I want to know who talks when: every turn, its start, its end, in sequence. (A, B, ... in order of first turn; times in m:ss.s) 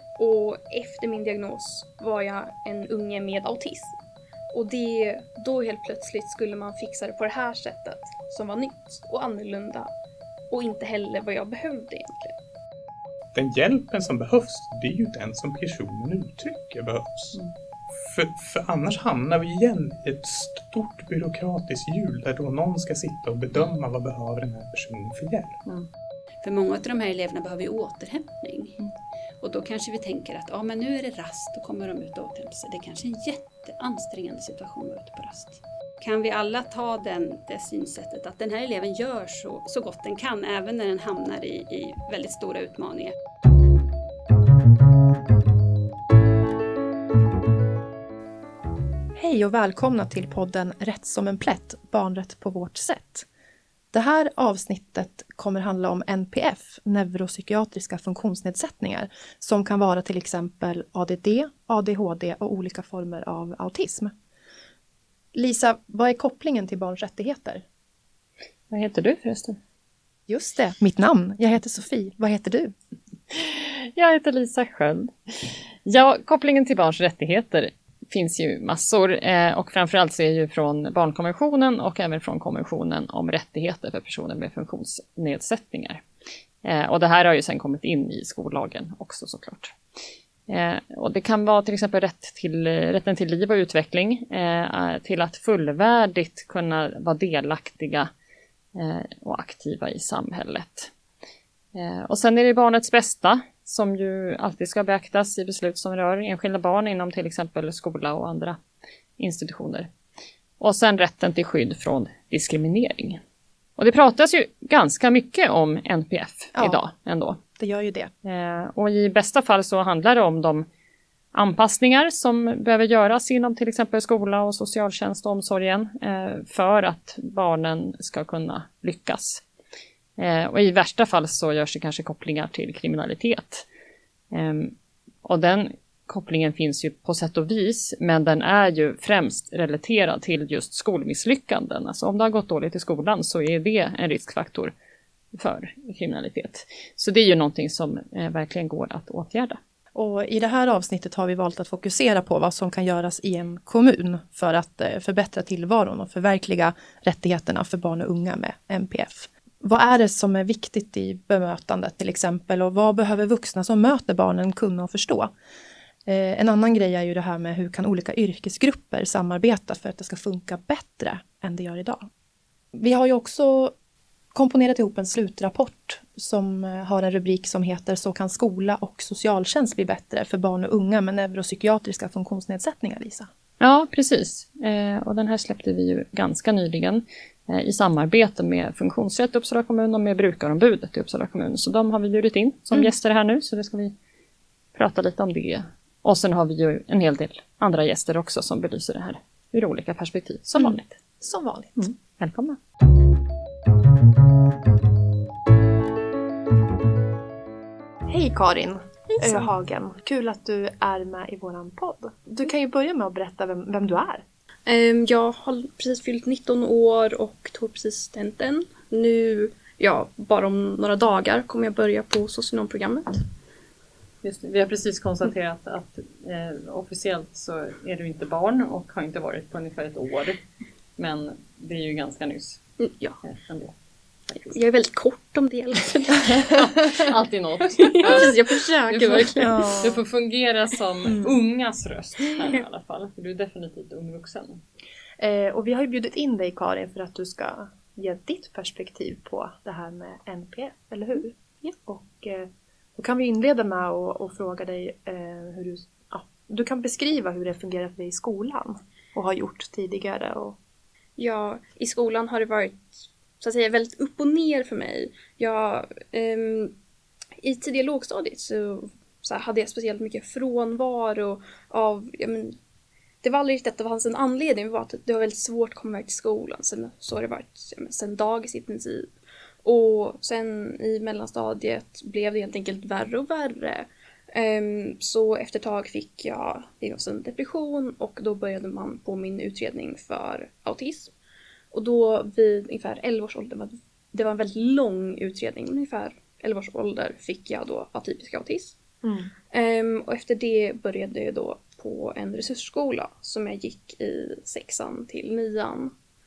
0:00.2-0:04.0 A
0:04.5-0:09.9 A
0:10.5-0:12.4 A
0:13.3-0:17.4 B
0:17.9-0:25.6 B
0:26.4-0:28.8 C
0:29.4-0:43.1 C
0:49.2-0:53.3 D
0:53.9-1:04.1 D
1:05.3-1:07.6 D
1:08.7-1:09.6 E
1:10.3-1:12.7 D
1:13.3-1:26.0 E
1:26.6-1:29.8 E
1:30.5-1:38.1 E
1:38.8-1:40.9 E
1:41.7-1:48.6 E
1:49.2-1:49.9 E
1:50.6-1:53.2 E
1:53.8-1:57.4 E
1:56.6-1:56.8 D
1:57.6-1:58.1 D
1:58.2-2:00.7 E
2:01.3-2:09.4 E
2:10.2-2:13.7 E
2:14.3-2:24.7 E
2:25.3-2:29.6 E
2:29.9-2:45.3 D
2:46.1-2:52.1 D
2:52.7-2:53.7 D
2:54.3-3:03.3 D
3:03.6-3:13.9 E
3:14.8-3:21.0 E
3:20.6-3:21.9 D
3:21.8-3:22.6 E
3:28.1-3:34.2 D
3:34.7-3:43.2 A
3:44.2-3:50.4 E
3:51.0-3:52.6 E
3:52.8-3:53.2 A
3:53.2-3:53.7 E
3:54.4-3:56.6 A
3:56.7-4:04.6 E
3:57.8-3:59.6 A
3:59.4-4:00.0 D
4:05.2-4:20.6 D
4:21.2-4:26.7 A
4:27.4-4:32.6 A
4:33.2-4:39.1 A
4:39.6-4:51.1 A
4:51.7-4:58.8 A
4:59.0-4:59.3 D
4:59.5-5:05.9 A